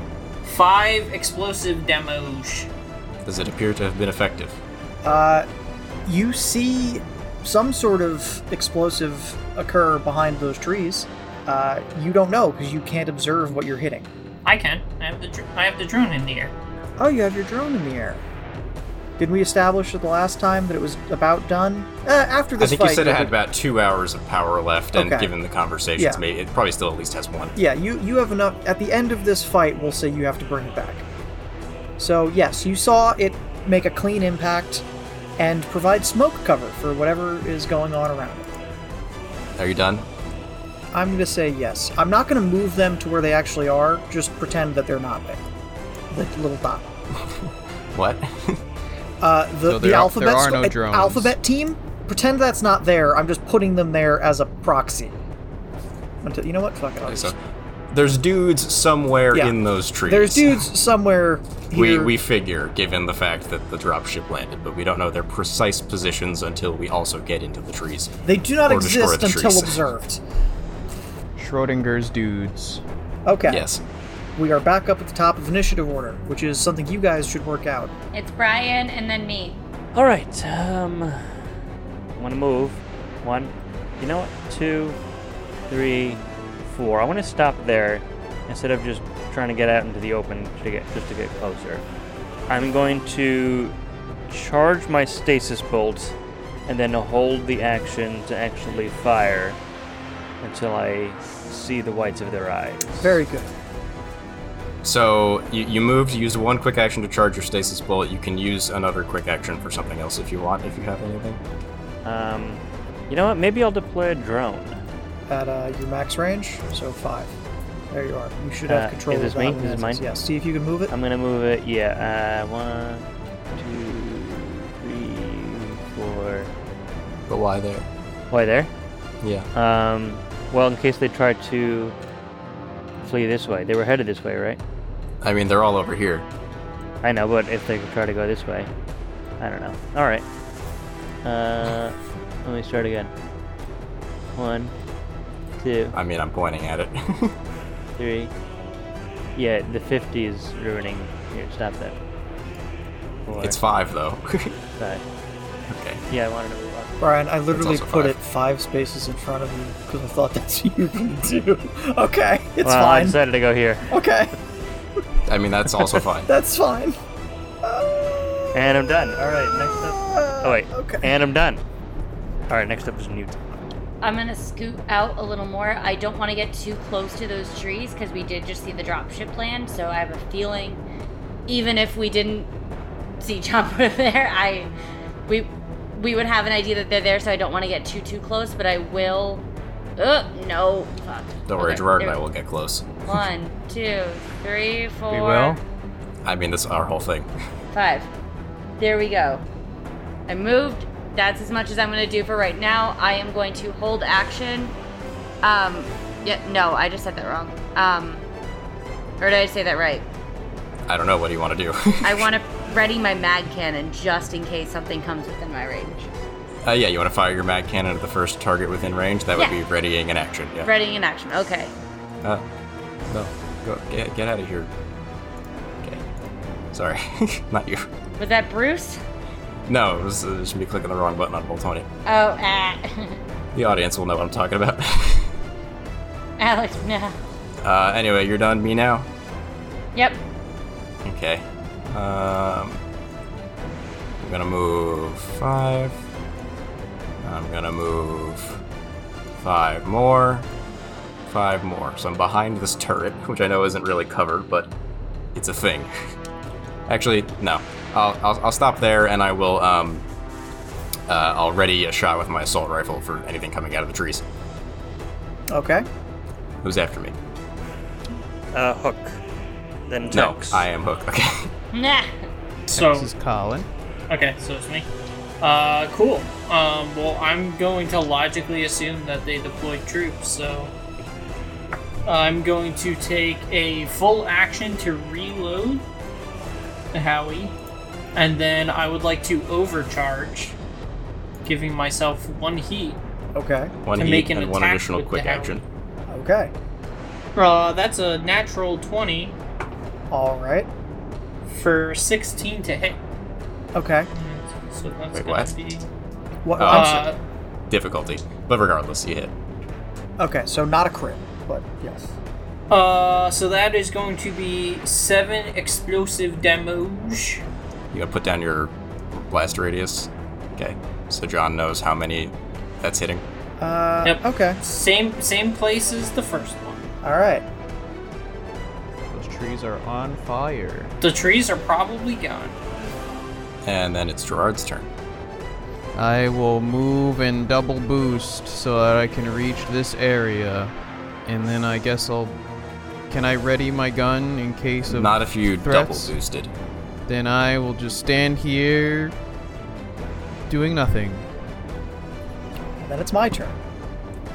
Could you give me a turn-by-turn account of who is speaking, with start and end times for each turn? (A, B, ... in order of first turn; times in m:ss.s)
0:00.4-0:02.7 A
0:03.2-0:04.6 B
0:05.0-0:05.4 C
0:06.0-0:14.1 C
0:14.4-0:16.5 A
0:17.0-0:18.2 C
0:19.2-0:23.3 C
0:22.6-0:27.6 B
0:24.9-0:25.3 C
0:26.0-0:26.2 C
0:27.6-0:31.0 C
0:32.0-0:34.8 C
0:35.4-0:38.5 C
0:39.5-0:40.1 B
0:40.9-0:45.4 C
0:46.1-0:46.8 C
0:47.2-0:48.6 B
0:49.2-0:55.2 C
0:49.6-0:51.3 D
0:56.2-0:57.3 C
0:57.1-0:57.4 B
0:57.9-1:00.6 B
0:59.3-1:02.1 C
1:01.7-1:09.8 B
1:08.2-1:10.2 C
1:11.4-1:12.8 D
1:13.2-1:13.7 C
1:13.5-1:13.8 B
1:14.4-1:17.9 C
1:18.1-1:19.6 E
1:19.9-1:21.4 F
1:22.1-1:25.0 F
1:25.7-1:31.8 F
1:32.5-1:33.7 F
1:34.3-1:36.1 F
1:36.7-1:39.6 F
1:40.4-1:43.2 F
1:43.0-1:43.5 C
1:44.8-1:51.4 B
1:52.0-1:54.8 F
1:55.3-1:57.4 C
1:57.9-2:00.9 C
1:58.7-2:00.0 F
2:00.9-2:06.5 F
2:07.3-2:07.9 B
2:08.3-2:08.7 F
2:09.2-2:09.5 B
2:09.5-2:11.9 F
2:13.0-2:14.6 F
2:15.2-2:16.3 B
2:17.0-2:18.7 F
2:19.4-2:20.2 F
2:21.2-2:23.1 F
2:24.3-2:24.7 F
2:25.6-2:26.0 F
2:25.9-2:27.3 B
2:28.0-2:28.3 F
2:29.3-2:31.9 F
2:33.2-2:33.6 F
2:33.4-2:34.6 B
2:35.7-2:36.0 B
2:36.1-2:36.9 F
2:37.0-2:43.2 C
2:37.5-2:38.1 B
2:42.6-2:43.9 F
2:43.9-2:44.3 C
2:45.3-2:46.3 B
2:45.8-2:47.0 C
2:47.6-2:49.0 C
2:48.5-2:51.6 F
2:49.7-2:51.1 C
2:52.5-2:53.3 F
2:54.0-3:00.8 E
3:01.5-3:02.5 E
3:03.2-3:04.7 E
3:05.3-3:09.4 E
3:10.0-3:12.2 E
3:11.5-3:12.9 B
3:13.0-3:15.6 E
3:15.1-3:15.6 D
3:16.2-3:17.3 B
3:17.7-3:18.1 E
3:18.8-3:19.4 E
3:20.3-3:24.7 E
3:25.4-3:28.2 E
3:29.2-3:30.0 E
3:30.9-3:32.3 B
3:32.0-3:36.1 E
3:36.6-3:40.7 B
3:40.6-3:41.7 E
3:43.1-3:44.7 B
3:46.7-3:47.9 B
3:48.2-3:49.0 E
3:49.7-3:51.9 B
3:52.0-3:53.2 E
3:53.5-3:55.3 B
3:56.4-3:57.2 E
3:57.6-3:59.1 B
3:59.9-4:00.2 E
4:01.0-4:02.8 B
4:04.2-4:06.0 B
4:07.2-4:08.6 B
4:09.4-4:10.5 B
4:11.3-4:14.7 B
4:15.3-4:15.9 B
4:16.9-4:20.0 B
4:21.1-4:24.2 B
4:25.5-4:25.8 C
4:26.6-4:27.2 B
4:28.5-4:29.2 F
4:29.9-4:30.7 F
4:30.1-4:31.5 B
4:31.7-4:32.1 E
4:32.7-4:33.1 A
4:32.7-4:33.7 D
4:34.1-4:34.9 A
4:35.4-4:40.7 A
4:42.0-4:45.8 A
4:46.9-4:47.5 A
4:48.1-4:50.6 A
4:51.4-4:53.0 A
4:53.3-4:53.7 C
4:53.8-4:55.6 B
4:53.9-4:55.6 A
4:56.1-4:56.5 C
4:57.3-4:59.4 A
5:00.1-5:00.7 C
5:01.5-5:03.0 A
5:03.7-5:04.1 C
5:04.1-5:05.8 A
5:05.1-5:05.5 B
5:06.4-5:07.0 C
5:06.6-5:07.1 B
5:06.7-5:07.2 A
5:07.7-5:09.3 B
5:10.2-5:12.1 C
5:12.7-5:17.4 A
5:17.9-5:23.2 B
5:23.6-5:24.6 C
5:24.0-5:26.9 A
5:27.0-5:27.4 C
5:29.1-5:30.9 D
5:31.0-5:32.6 A
5:33.6-5:34.9 B
5:35.9-5:40.7 D
5:41.2-5:42.4 D
5:43.1-5:46.1 D
5:44.8-5:46.5 B
5:47.1-5:49.1 D
5:50.5-5:51.3 D
5:52.8-5:53.6 C